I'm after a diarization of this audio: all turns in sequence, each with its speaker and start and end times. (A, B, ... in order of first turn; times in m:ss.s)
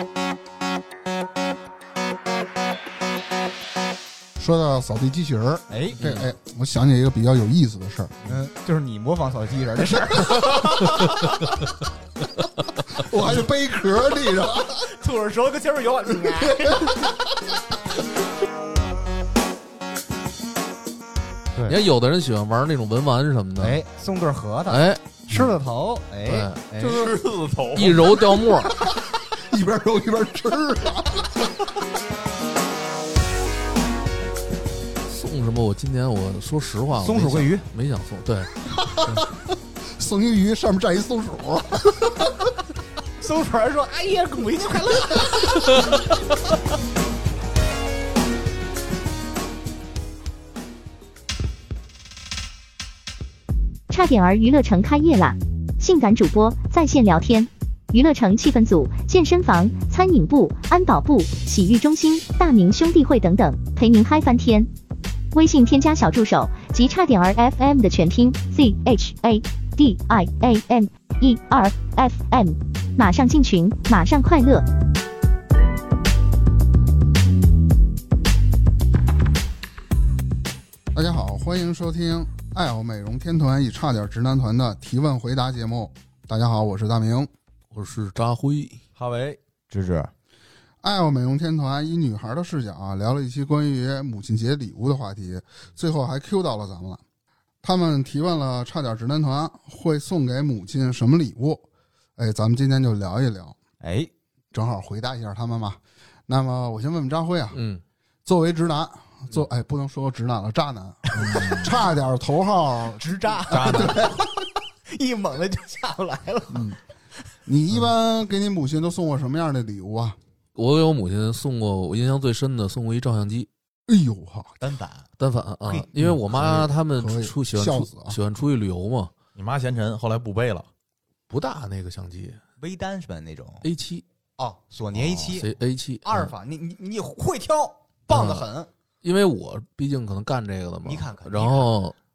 0:04.4-0:08.4 A
0:05.7-0:06.2 B
0:08.2-0:10.5 B
0:13.0-0:14.8 A
0:14.8-0:16.9 B
0:16.7-0:17.1 A
0:21.7-0:23.8 C
0:23.6-0:27.1 B
0:24.7-0:25.4 C
0:26.2-0:26.7 C
0:26.8-0:28.2 D
0:27.7-0:28.7 C
0:29.3-0:31.5 A
0:35.1-0:39.2 C
0:37.0-0:37.7 B
0:38.9-0:39.3 A
0:39.8-0:42.5 A
0:43.2-0:45.9 B
0:53.9-1:04.7 E
1:05.3-1:14.6 E
1:20.9-1:27.3 A
1:27.7-1:28.8 C
1:29.0-1:29.4 D
1:29.7-1:30.1 B
1:30.8-1:37.0 A
1:37.6-1:41.6 A
1:42.2-1:43.6 A
1:43.8-1:44.1 B
1:44.5-1:47.6 A
1:47.5-1:47.8 C
1:48.2-1:54.2 A
1:51.2-1:51.6 B
1:52.9-1:56.8 B
1:53.5-1:54.1 D
1:56.5-1:56.8 A
1:57.4-2:00.2 A
2:00.6-2:03.5 C
2:03.9-2:04.6 A
2:04.6-2:05.1 B
2:05.2-2:09.1 C
2:05.9-2:08.2 A
2:09.3-2:10.7 D
2:11.3-2:12.4 C
2:12.6-2:13.7 B
2:13.6-2:14.0 C
2:14.4-2:15.5 B
2:14.9-2:16.3 C
2:16.0-2:18.7 B
2:18.1-2:18.5 C
2:19.0-2:22.0 C
2:20.8-2:21.7 B